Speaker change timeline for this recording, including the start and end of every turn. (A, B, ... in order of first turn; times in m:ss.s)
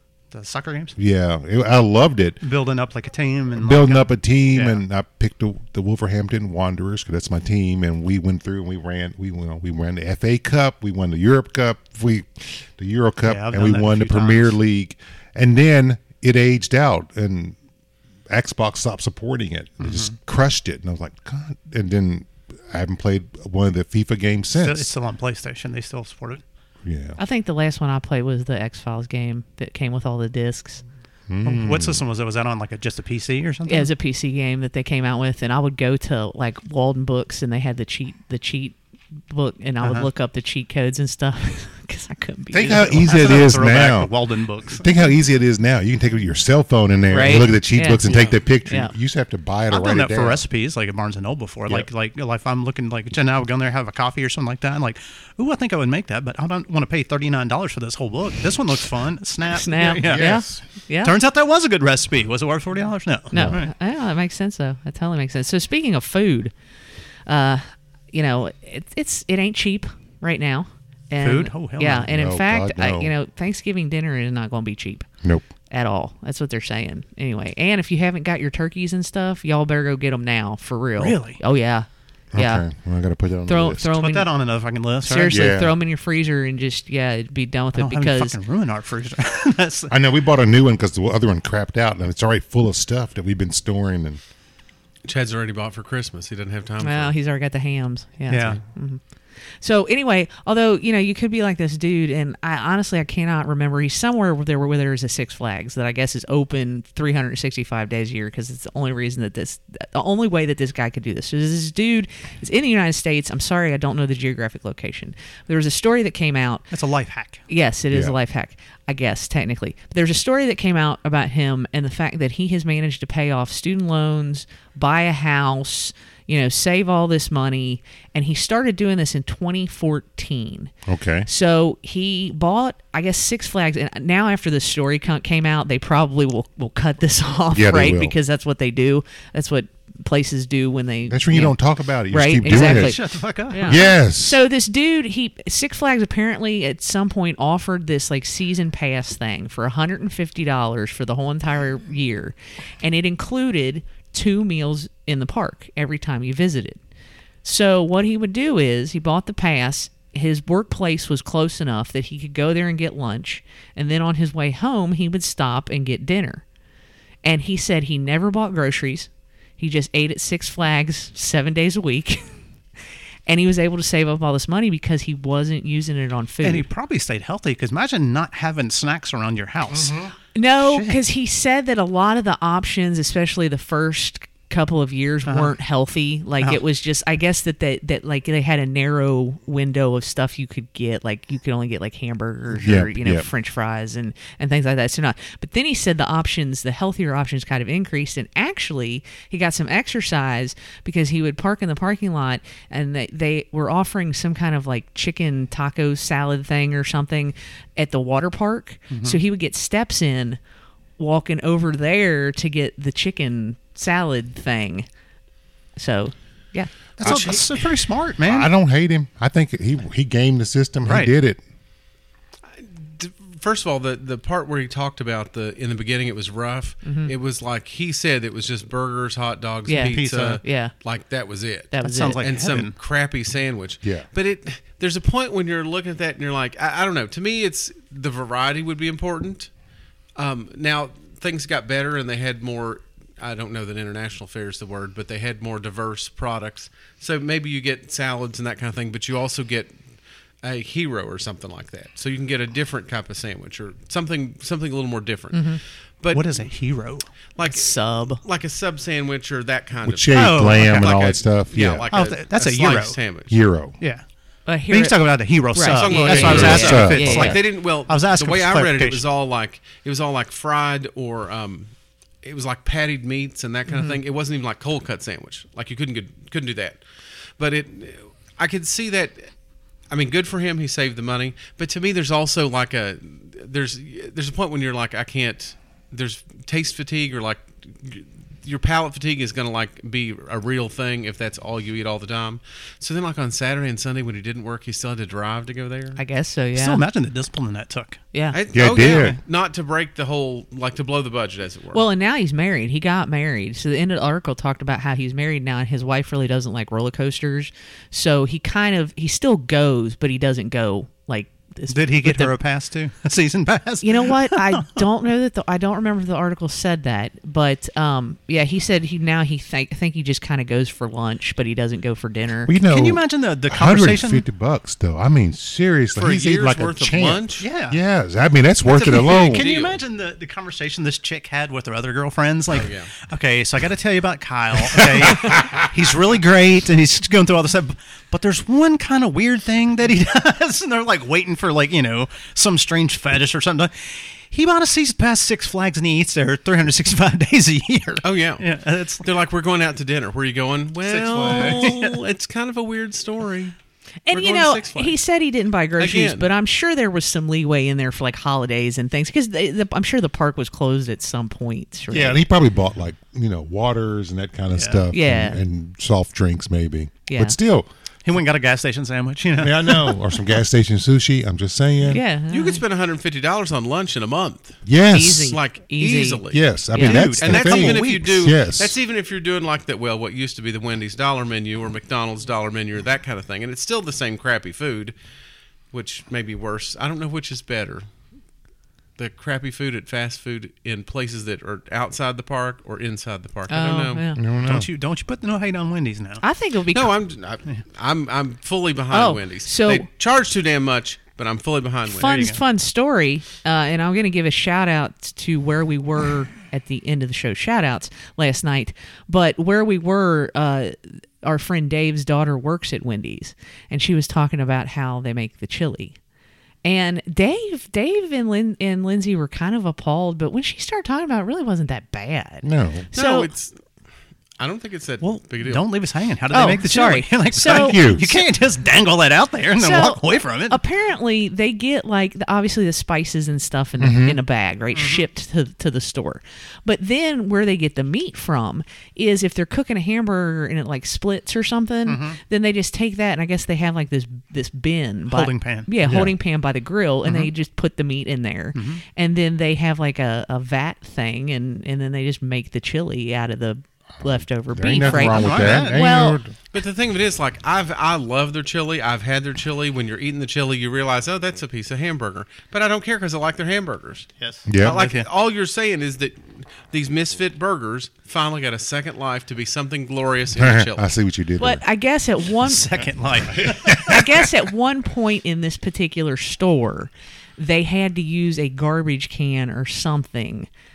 0:00.3-0:01.0 A
0:01.0-0:02.4 B
0:02.4-0:04.8 A
0:03.6-0:17.6 B
0:13.3-0:14.6 A
0:18.3-0:24.9 B
0:19.8-0:20.1 A
0:24.5-0:26.4 A
0:26.8-0:27.2 B
0:27.2-0:30.8 C
0:31.3-0:32.0 B
0:31.4-0:33.9 A
0:33.7-0:38.8 C
0:39.3-0:43.1 C
0:39.8-0:40.1 A
0:42.5-0:44.1 B
0:42.7-0:44.9 A
0:44.7-0:50.4 B
0:47.1-0:48.9 C
0:48.0-0:48.4 D
0:49.7-1:00.3 A
0:59.5-1:01.2 C
1:00.0-1:00.6 B
1:01.0-1:03.7 A
1:03.3-1:03.6 B
1:03.3-1:06.5 C
1:07.3-1:15.1 C
1:11.2-1:12.1 A
1:12.1-1:13.1 B
1:15.7-1:22.6 C
1:21.0-1:21.4 A
1:22.3-1:23.9 B
1:23.5-1:24.3 C
1:24.0-1:25.4 A
1:25.0-1:28.4 C
1:25.3-1:25.8 B
1:27.8-1:29.9 A
1:29.9-1:34.2 B
1:35.0-1:37.1 D
1:36.8-1:56.7 C
1:38.3-1:38.6 A
1:56.7-1:57.4 A
1:57.5-2:10.7 C
2:10.9-2:11.3 B
2:11.3-2:21.6 C
2:17.5-2:18.2 B
2:21.1-2:23.0 B
2:22.1-2:36.8 C
2:22.4-2:23.9 A
2:23.6-2:24.4 B
2:37.4-2:46.4 C
2:47.2-2:52.3 C
2:53.3-2:56.7 C
2:56.4-3:00.0 A
2:59.7-3:00.1 B
3:00.3-3:30.4 C
3:00.6-3:01.0 A
3:05.3-3:05.5 A
3:12.5-3:13.3 B
3:28.9-3:29.2 A
3:31.0-3:34.9 C
3:35.8-3:36.7 C
3:37.0-3:38.5 A
3:37.0-3:37.6 B
3:38.2-3:41.4 B
3:40.8-3:41.1 A
3:42.6-3:59.5 D
3:46.8-3:47.1 C
3:49.7-3:50.7 C
3:49.9-3:50.4 A
3:51.7-3:52.2 C
3:51.8-3:52.7 A
4:00.2-4:09.8 D
4:10.4-4:16.5 D
4:15.3-4:15.6 C
4:16.1-4:17.1 A
4:17.4-4:23.4 D
4:17.4-4:18.2 C
4:19.8-4:21.9 B
4:20.1-4:21.0 A
4:21.9-4:23.0 A
4:23.3-4:23.8 B
4:23.8-4:24.0 A
4:24.5-4:27.4 C
4:24.7-4:29.0 A
4:25.6-4:31.7 D
4:26.1-4:27.4 B
4:32.2-4:36.8 D
4:33.7-4:34.0 C
4:37.4-4:39.3 D
4:39.9-4:56.0 D
4:56.0-4:56.8 C
4:56.6-4:58.0 A
4:58.1-4:58.4 C
4:58.3-5:01.8 D
4:58.5-4:59.2 B
5:01.7-5:12.3 C
5:11.7-5:14.8 A
5:13.8-5:22.5 C
5:22.5-5:29.5 B
5:22.7-5:24.2 A
5:26.0-5:27.5 D
5:27.4-5:27.8 A
5:28.7-5:49.0 A
5:29.3-5:29.8 D
5:32.5-5:32.9 D
5:35.1-5:35.4 B
5:48.0-5:53.6 D
5:50.9-5:52.0 A
5:51.0-5:51.7 B
5:54.1-6:02.3 C
5:54.1-5:55.0 D
5:55.8-5:56.3 D
6:01.9-6:07.7 B
6:04.6-6:04.8 A
6:04.9-6:05.4 C
6:07.1-6:07.4 C
6:08.0-6:10.0 A
6:09.4-6:12.0 B
6:11.8-6:12.6 C
6:12.3-6:14.6 D
6:14.6-6:15.4 B
6:14.9-6:16.2 C
6:15.2-6:16.4 D
6:16.3-6:18.8 B
6:16.7-6:17.0 C
6:16.8-6:18.3 A
6:17.2-6:25.0 D
6:25.7-6:27.8 D
6:29.0-6:34.1 D
6:33.5-6:34.2 C
6:34.2-6:34.7 B
6:34.4-6:36.2 A
6:36.2-6:36.9 C
6:36.7-6:42.3 D
6:38.9-6:39.9 C
6:41.9-6:56.0 C
6:42.1-6:42.4 A
6:56.6-7:03.3 C
7:02.4-7:02.9 B
7:03.0-7:03.6 D
7:04.4-7:05.7 D
7:05.0-7:10.6 A
7:06.3-7:07.8 C
7:07.4-7:08.2 B
7:09.6-7:36.2 C
7:13.8-7:14.2 B
7:14.8-7:15.0 A
7:21.9-7:22.2 A
7:25.1-7:25.7 A
7:25.8-7:26.2 B
7:27.0-7:27.3 A
7:28.6-7:28.8 A
7:34.2-7:36.4 B
7:34.9-7:35.8 A
7:36.5-7:50.9 D
7:44.2-7:45.1 A
7:44.5-7:44.8 B
7:50.3-7:51.6 B
7:51.4-7:52.7 C
7:52.5-7:54.1 A
7:53.3-7:54.2 B
7:53.8-8:00.5 C